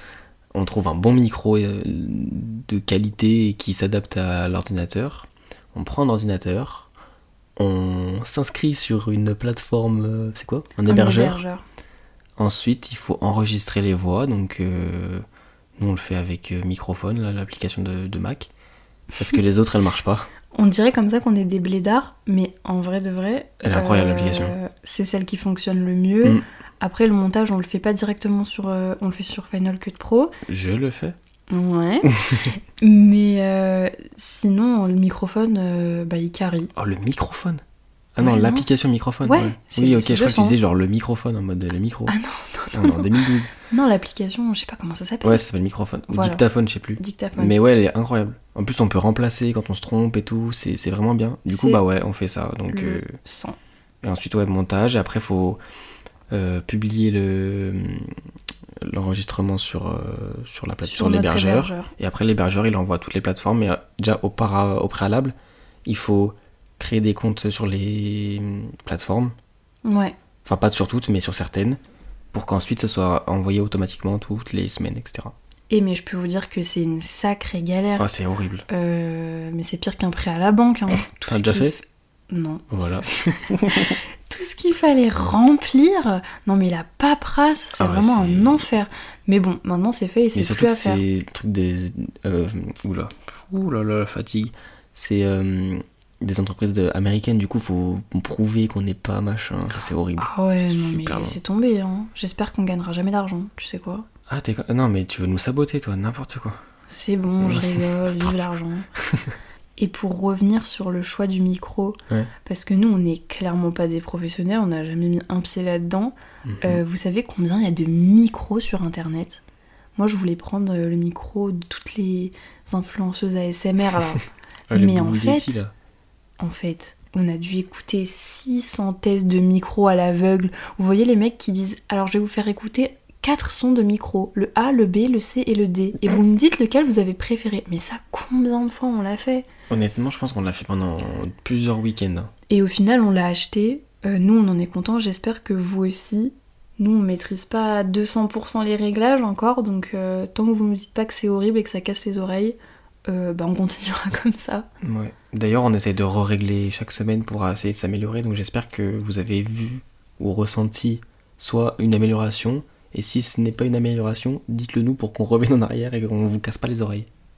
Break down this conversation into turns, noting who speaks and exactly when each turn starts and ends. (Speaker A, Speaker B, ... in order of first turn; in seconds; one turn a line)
Speaker A: 0.5-6.9
Speaker A: 7.6-11.4
Speaker B: 10.9-11.6
Speaker A: 12.4-15.2
Speaker A: 15.8-18.5
Speaker A: 19.2-20.3
Speaker B: 20.5-30.3
Speaker A: 23.6-24.6
Speaker A: 30.5-31.1
Speaker B: 31.5-32.1
Speaker A: 32.0-32.5
Speaker B: 32.8-36.7
Speaker A: 36.8-37.6
Speaker A: 38.1-42.1
Speaker B: 38.2-38.7
Speaker B: 39.2-40.6
Speaker B: 42.1-45.4
Speaker A: 42.7-43.5
Speaker A: 45.2-53.1
Speaker B: 46.1-46.4
Speaker B: 47.0-47.5
Speaker B: 51.5-51.8
Speaker B: 52.7-53.6
Speaker A: 54.0-55.6
Speaker A: 56.3-58.2
Speaker A: 58.8-65.3
Speaker B: 60.8-61.9
Speaker A: 65.8-69.3
Speaker B: 69.8-70.2
Speaker A: 70.5-71.8
Speaker A: 72.3-75.3
Speaker B: 75.7-78.1
Speaker A: 78.0-78.7
Speaker B: 78.7-91.0
Speaker A: 81.3-81.8
Speaker A: 82.7-84.0
Speaker A: 87.8-88.7
Speaker A: 90.3-101.4
Speaker B: 100.2-104.1
Speaker A: 104.3-106.6
Speaker B: 106.9-108.9
Speaker A: 107.4-108.5
Speaker A: 109.0-109.3
Speaker B: 109.8-119.4
Speaker A: 116.5-116.8
Speaker B: 120.0-125.6
Speaker A: 124.7-125.7
Speaker B: 126.4-139.5
Speaker A: 139.7-142.3
Speaker B: 142.5-154.7
Speaker A: 154.8-167.1